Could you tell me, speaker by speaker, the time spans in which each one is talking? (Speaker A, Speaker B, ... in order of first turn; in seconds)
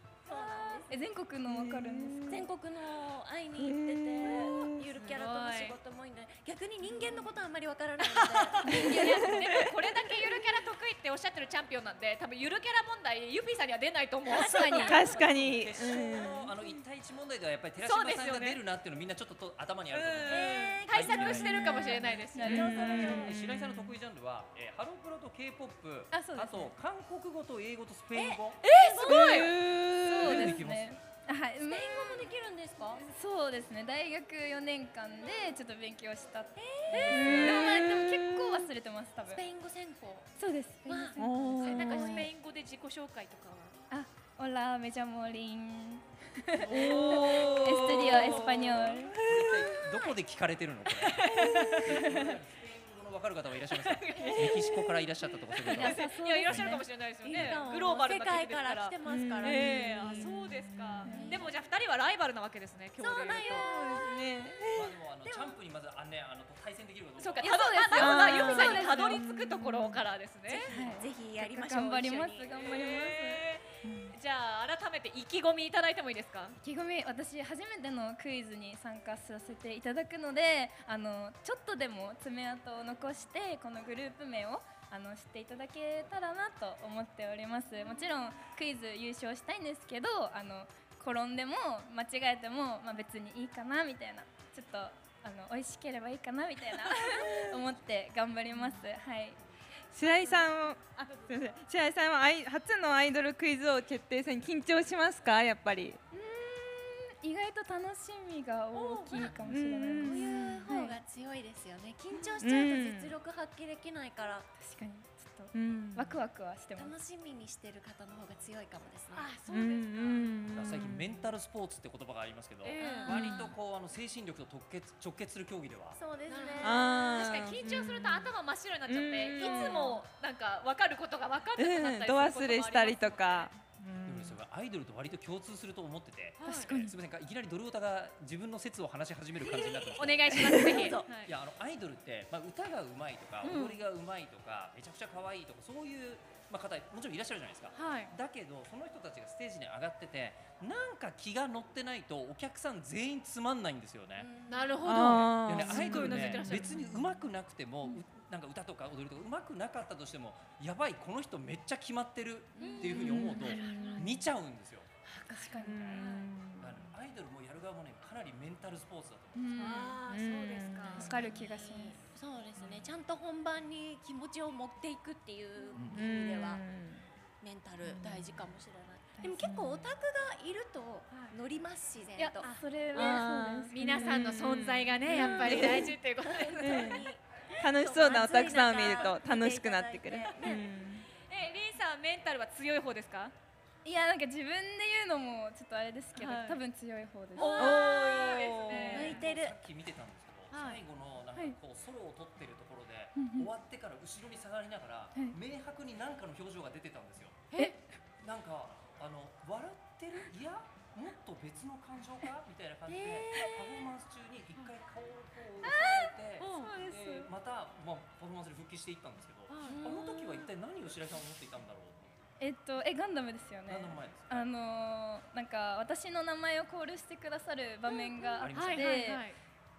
Speaker A: 0.2-1.1, 2.3-9.7, 14.3-14.7, 20.3-21.5, 22.6-23.2, 28.1-29.6, 31.7-33.0, 36.6-38.1, 39.3-40.3, 40.9-42.3, 49.7-50.2, 57.2-60.3, 61.1-61.5, 63.0-64.5, 65.2-65.6, 70.5-72.5, 108.7-114.5, 116.8-119.3, 122.8-123.5, 126.0-127.5, 129.4-129.9, 139.6-139.9, 140.5-141.2, 154.2-154.9, 162.6-164.2, 171.0-176.6, 177.4-183.2, 185.2-190.7, 197.4-199.6, 212.9-213.6, 219.7-220.3
Speaker B: 0.3-2.5, 8.7-9.3, 14.3-15.2, 21.4-23.3, 26.1-26.7, 29.3-32.3, 33.0-39.5, 40.4-42.2, 43.9-49.2, 51.9-52.4, 55.6-56.9, 59.8-60.2, 61.0-61.5, 67.4-69.2, 70.7-73.4, 76.6-99.4, 106.1-111.0, 114.6-117.0, 136.4-136.9, 165.1-166.1, 169.3-170.0, 170.9-172.1, 179.2-179.6, 182.2-184.1, 185.1-185.6, 193.8-197.8, 198.9-199.2, 203.2-203.5, 215.6-217.3, 222.4-229.3
Speaker C: 1.4-2.5, 3.6-4.8, 8.7-9.7, 14.8-16.5, 21.6-23.4, 29.1-30.6, 37.1-38.7, 41.2-42.2, 46.7-49.7, 59.0-61.2, 63.5-64.9, 67.9-70.0, 73.8-74.1, 97.1-97.5, 98.5-98.8, 99.9-106.0, 109.5-110.4, 112.4-113.1, 115.5-116.2, 119.5-121.2, 126.6-128.3, 128.9-130.0, 131.6-134.4, 154.8-156.5, 162.8-164.2, 165.6-166.9, 170.1-171.2, 175.9-177.1, 177.9-178.2, 179.4-179.9, 182.9-186.0, 186.6-187.1, 187.6-191.1, 197.4-199.1
Speaker D: 5.0-5.8, 8.0-15.0, 17.8-18.6, 19.9-22.6, 28.6-29.6, 36.9-37.4, 41.6-43.8, 47.2-47.4, 50.9-52.0, 53.7-54.8, 55.7-63.7, 67.2-70.7, 72.5-76.6, 119.1-120.4, 122.6-123.3, 126.3-133.5, 136.4-136.8, 139.9-141.3, 143.4-143.8, 147.7-148.1, 154.5-156.8, 162.6-162.9, 165.5-166.3, 169.6-171.2, 181.1-181.4, 183.7-187.0, 191.3-193.3, 196.2-196.6, 197.3-199.3, 200.5-200.8, 216.4-216.8, 219.5-220.5, 228.5-229.4
Speaker E: 15.2-21.6, 22.8-28.6, 30.1-31.0, 46.6-51.3, 51.8-56.0, 64.7-67.7, 120.5-126.0, 134.1-140.6, 141.2-154.3, 155.0-164.9, 165.8-166.1, 166.6-169.6, 175.8-176.1, 199.1-207.5, 208.2-222.2, 223.7-224.5, 228.4-228.9